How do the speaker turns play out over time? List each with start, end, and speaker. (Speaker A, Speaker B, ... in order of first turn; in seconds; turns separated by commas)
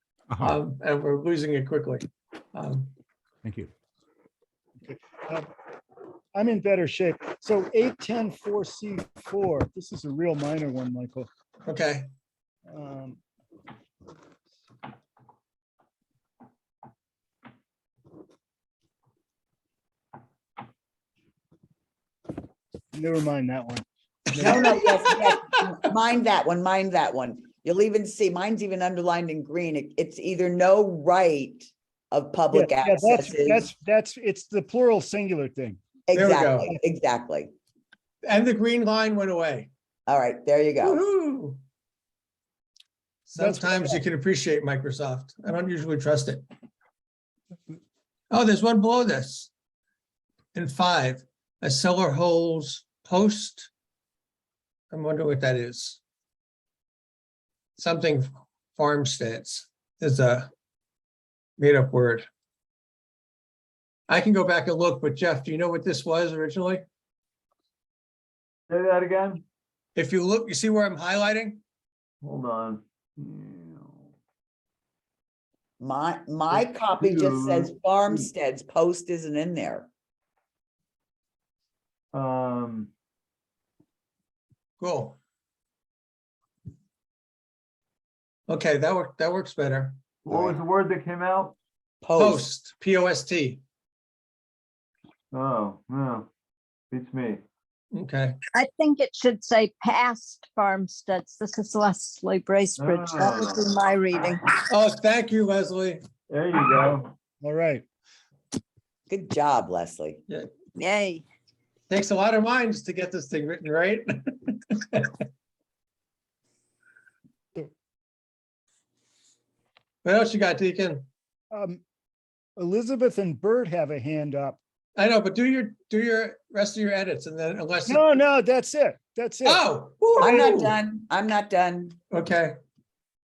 Speaker A: 0.4-2.9, Speaker B: 4.8-5.5, Speaker B: 6.3-11.3, Speaker A: 11.7-12.1, Speaker B: 12.7-13.2, Speaker B: 22.9-24.8, Speaker C: 24.4-33.7, Speaker B: 32.5-35.8, Speaker C: 36.1-37.5, Speaker A: 36.1-36.7, Speaker A: 38.2-39.7, Speaker C: 40.1-41.0, Speaker A: 40.8-41.6, Speaker A: 43.3-46.4, Speaker B: 43.4-44.0, Speaker A: 48.3-49.5, Speaker A: 50.5-53.7, Speaker A: 54.9-56.0, Speaker A: 57.8-60.5, Speaker A: 61.6-62.3, Speaker A: 64.1-66.8, Speaker D: 68.7-69.4, Speaker A: 70.0-71.6, Speaker D: 72.2-74.1, Speaker C: 75.8-79.9, Speaker D: 76.5-77.7, Speaker D: 82.1-82.9, Speaker A: 84.8-85.2, Speaker A: 88.5-90.0, Speaker D: 90.2-91.6, Speaker C: 92.0-92.4, Speaker A: 92.2-93.6, Speaker D: 95.3-96.3, Speaker D: 96.9-97.4, Speaker A: 97.9-98.4, Speaker E: 98.5-104.5, Speaker D: 102.8-103.7, Speaker A: 104.7-106.0, Speaker D: 106.3-107.1, Speaker B: 107.4-107.8, Speaker C: 109.1-110.2, Speaker E: 110.8-111.2, Speaker A: 111.9-115.1, Speaker A: 120.0-121.1, Speaker B: 121.5-121.8, Speaker B: 122.6-124.6, Speaker A: 125.0-128.1, Speaker B: 127.9-129.6, Speaker A: 129.4-130.8, Speaker C: 130.2-132.0, Speaker A: 132.1-132.5